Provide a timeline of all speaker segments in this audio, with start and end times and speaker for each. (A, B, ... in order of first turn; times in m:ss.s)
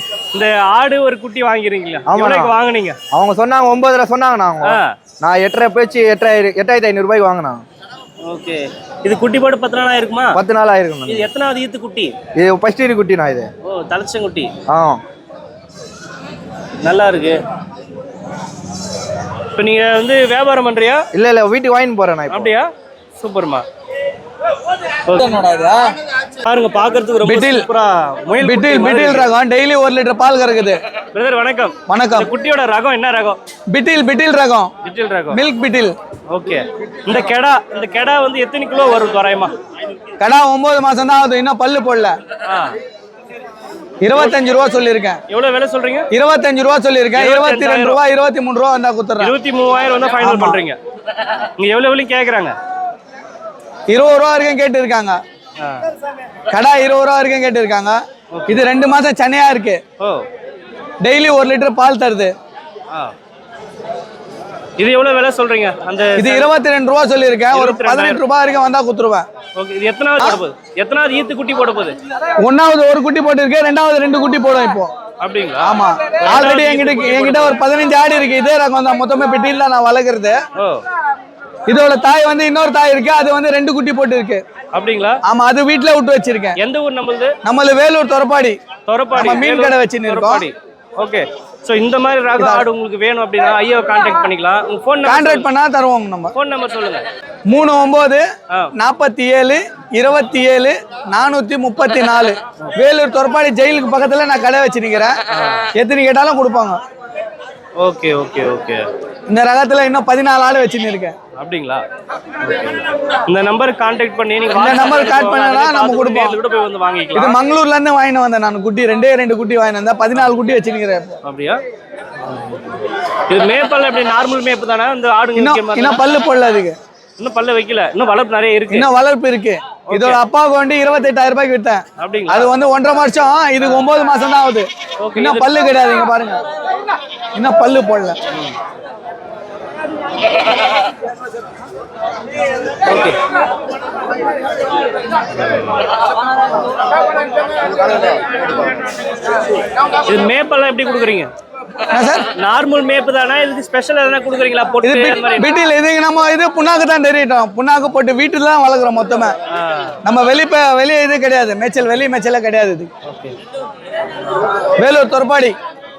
0:00.3-0:03.0 A
0:02.1-0:02.5 B
0:03.1-0:07.6 B
0:04.6-0:04.9 A
0:08.2-0:10.4 A
0:10.3-0:11.3 B
0:11.1-0:12.1 A
0:12.4-0:13.5 B
0:13.6-0:14.5 A
0:14.7-0:15.0 B
0:16.8-0:17.4 A
0:19.6-0:21.0 A
0:21.1-0:22.5 B
0:22.3-0:23.6 A
0:25.0-0:25.3 A
0:25.2-0:25.8 C
0:26.4-0:29.3 A
0:27.2-0:27.6 C
0:28.4-0:30.8 C
0:31.1-0:33.4 A
0:31.9-0:32.3 C
0:33.7-0:34.7 C
0:34.8-0:35.4 A
0:35.3-0:35.9 C
0:36.3-0:39.5 A
0:40.2-0:42.1 C
0:42.5-0:42.8 A
0:44.0-0:45.2 C
0:45.3-0:46.1 A
0:46.1-0:49.3 C
0:47.2-0:48.0 A
0:49.2-0:50.8 A
0:50.2-0:50.6 C
0:51.6-0:52.5 A
0:53.9-0:55.2 C
0:56.5-0:59.8 C
0:58.3-0:58.6 A
1:00.0-1:00.2 A
1:01.0-1:02.3 C
1:04.8-1:06.5 A
1:06.2-1:09.2 C
1:07.5-1:08.2 A
1:09.6-1:12.0 A
1:12.4-1:14.9 C
1:15.2-1:17.6 A
1:15.6-1:20.4 C
1:20.6-1:20.8 A
1:21.7-1:24.4 C
1:24.7-1:25.2 A
1:25.2-1:26.6 C
1:26.6-1:27.3 A
1:27.4-1:28.6 C
1:28.9-1:35.4 A
1:29.1-1:30.4 C
1:32.4-1:32.6 C
1:35.0-1:36.3 C
1:36.3-1:37.0 A
1:37.5-1:38.2 C
1:38.8-1:45.2 C
1:45.3-1:45.6 A
1:45.8-1:46.8 C
1:47.8-1:48.8 A
1:49.3-1:51.1 C
1:51.4-1:51.8 A
1:52.4-1:57.4 A
1:54.5-1:56.3 C
1:57.1-2:01.2 C
2:01.2-2:01.6 A
2:03.3-2:06.0 A
2:05.4-2:06.8 C
2:07.2-2:08.9 A
2:08.7-2:16.4 C
2:09.9-2:10.2 A
2:12.0-2:12.5 A
2:15.0-2:15.5 A
2:17.4-2:18.2 C
2:22.8-2:23.2 A
2:25.4-2:25.7 A
2:30.0-2:31.3 A
2:31.9-2:32.3 C
2:32.3-2:35.5 A
2:34.8-2:39.4 C
2:39.5-2:40.0 A
2:40.0-2:42.9 C
2:43.0-2:43.3 A
2:44.8-2:45.5 C